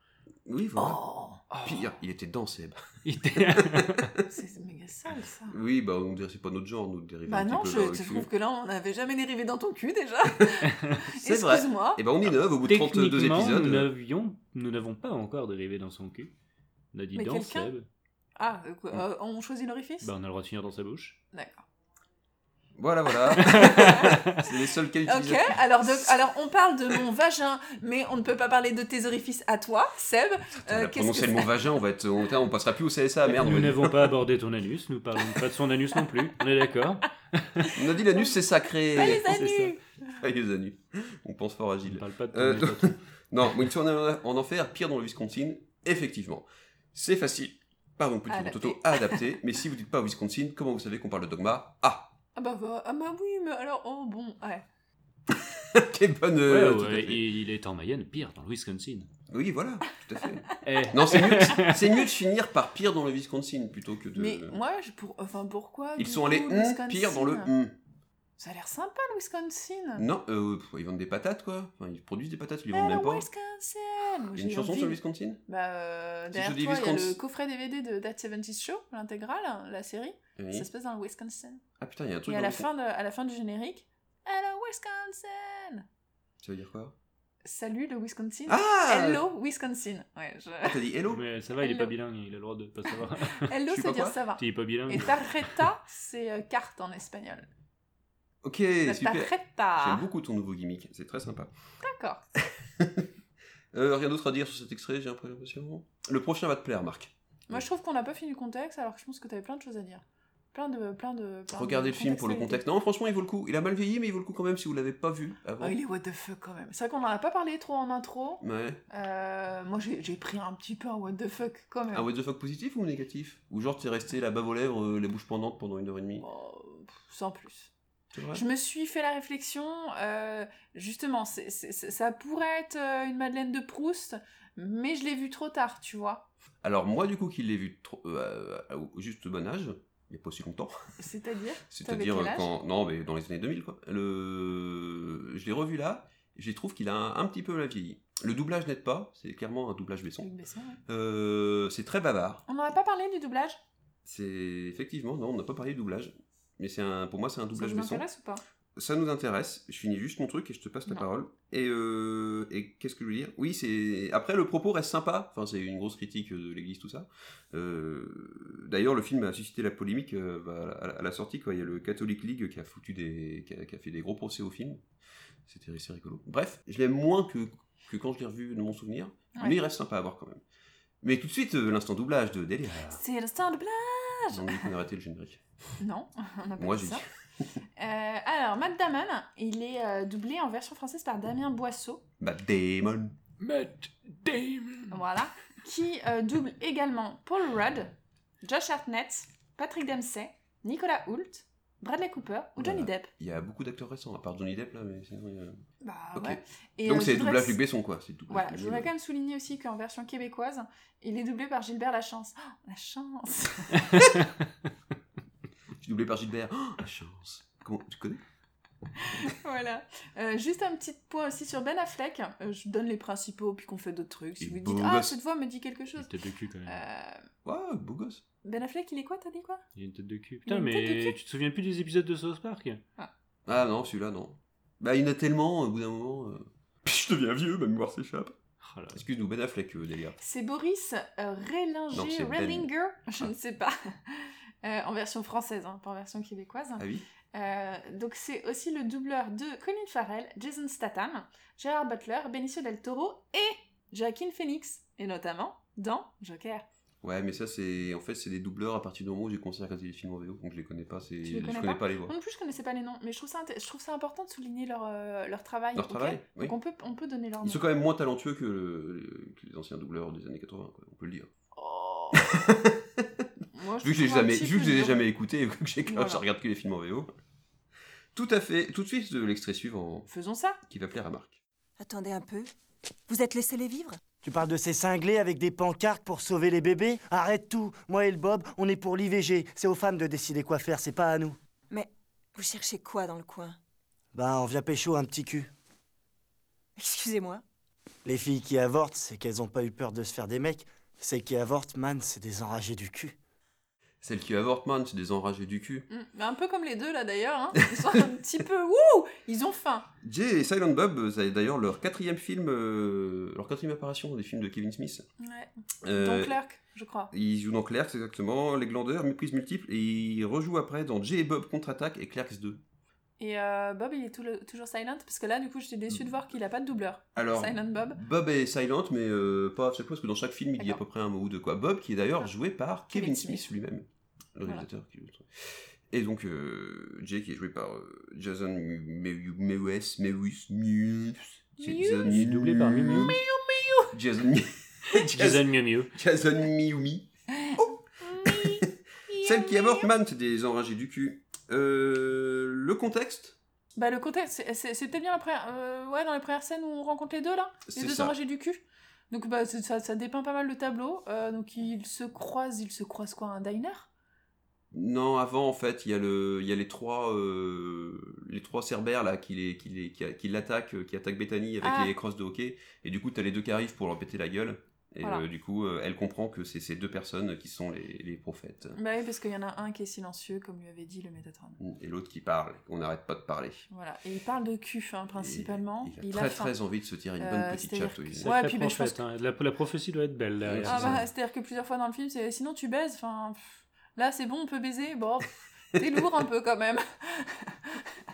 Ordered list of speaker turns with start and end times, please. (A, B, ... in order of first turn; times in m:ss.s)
0:00.5-0:01.0 A
0:00.8-0:01.8 B
0:01.6-0:02.8 A
0:03.0-0:04.1 C
0:03.4-0:04.1 A
0:04.3-0:05.6 B
0:05.5-0:08.3 A
0:07.3-0:12.0 B
0:11.2-0:13.9 A
0:12.3-0:16.3 C
0:16.9-0:17.9 C
0:17.1-0:17.7 B
0:18.4-0:20.1 B
0:20.0-0:21.2 C
0:21.3-0:21.6 B
0:22.8-0:25.9 A
0:23.4-0:24.0 B
0:23.4-0:24.3 C
0:25.1-0:31.5 B
0:30.7-0:34.1 A
0:33.2-0:37.7 C
0:37.7-0:39.4 A
0:38.9-0:39.8 B
0:39.0-0:39.8 C
0:40.1-0:52.1 A
0:41.9-0:43.0 C
0:48.3-0:49.2 B
0:52.4-0:54.6 B
0:55.3-0:57.2 A
0:56.5-0:59.1 C
0:59.3-1:04.6 A
1:00.6-1:01.8 C
1:04.2-1:07.5 B
1:06.0-1:07.7 A
1:08.4-1:10.0 B
1:10.0-1:13.3 A
1:12.7-1:21.6 B
1:14.4-1:15.4 A
1:16.3-1:17.2 A
1:20.4-1:20.7 A
1:21.8-1:22.7 A
1:22.3-1:25.9 B
1:26.4-1:26.9 A
1:27.4-1:30.8 B
1:28.5-1:29.2 A
1:30.6-1:31.2 A
1:31.1-1:33.5 C
1:31.6-1:31.9 B
1:33.4-1:37.5 B
1:33.7-1:34.2 A
1:34.4-1:35.6 C
1:38.4-1:41.5 A
1:38.9-1:40.1 B
1:41.8-1:42.2 B
1:42.8-1:43.0 A
1:43.7-1:47.6 A
1:47.5-1:50.0 B
1:50.5-1:52.6 B
1:51.5-1:55.8 A
1:55.6-2:02.1 B
1:58.4-1:58.8 A
2:01.9-2:06.3 A
2:06.2-2:07.7 B
2:08.1-2:08.4 A
2:08.3-2:16.3 B
2:16.6-2:20.8 A
2:21.0-2:22.5 B
2:21.7-2:30.3 A
2:30.2-2:30.8 B
2:30.9-2:32.4 A
2:32.5-2:33.6 B
2:34.0-2:38.0 A
2:37.5-2:38.4 B
2:38.8-2:54.8 A
2:55.5-3:00.4 A
3:01.0-3:03.0 A
3:02.9-3:04.7 B
3:04.3-3:05.4 A
3:05.8-3:07.0 B
3:06.6-3:07.0 A
3:07.8-3:12.0 B
3:12.2-3:13.2 A
3:13.4-3:14.9 C
3:14.9-3:23.1 B
3:22.6-3:25.6 A
3:25.8-3:27.6 B
3:26.2-3:28.9 A
3:28.3-3:33.9 B
3:35.8-3:38.2 A
3:39.0-3:46.1 B
3:44.4-3:45.2 A
3:46.0-3:46.8 C
3:46.7-3:47.2 B
3:47.4-3:48.2 A
3:48.4-3:49.6 B
3:49.8-3:52.8 C
3:50.5-3:51.2 B
3:53.5-3:58.3 A
3:58.6-3:59.0 C
3:58.9-4:00.2 A
4:00.2-4:16.7 B
4:01.9-4:03.3 A
4:06.8-4:07.1 A
4:17.0-4:22.1 A
4:21.2-4:27.6 B
4:25.8-4:26.6 A
4:27.4-4:31.3 A
4:31.6-4:32.4 B
4:32.2-4:33.2 A
4:33.6-4:35.0 B
4:33.8-4:37.1 A
4:35.9-4:36.2 B
4:38.1-4:40.1 A
4:40.1-4:40.6 B
4:40.7-4:41.4 A
4:41.8-4:42.5 D
4:43.1-4:44.0 D
4:44.2-4:51.4 E
4:51.7-4:53.6 D
4:54.1-4:55.5 E
4:56.8-4:57.4 D
4:58.0-5:03.2 E
5:04.0-5:05.9 A
5:05.9-5:09.9 B
5:10.0-5:15.1 A
5:15.2-5:17.1 B
5:15.8-5:16.4 A
5:17.1-5:22.6 A
5:23.2-5:28.0 B
5:27.2-5:43.2 A
5:32.9-5:33.5 B
5:41.6-5:42.2 B
5:42.1-5:43.2 C
5:43.0-5:43.9 B
5:43.9-5:48.7 A
5:44.9-5:45.9 C
5:47.3-5:49.9 B
5:49.2-5:53.4 A
5:53.8-6:03.9 B
5:57.7-5:58.2 A
6:04.7-6:18.8 A
6:11.6-6:11.9 B
6:18.8-6:21.6 B
6:21.6-6:23.6 A
6:23.7-6:26.5 B
6:25.2-6:28.3 A
6:27.2-6:29.0 B
6:28.2-6:31.0 C
6:30.4-6:31.0 A
6:30.6-6:37.9 B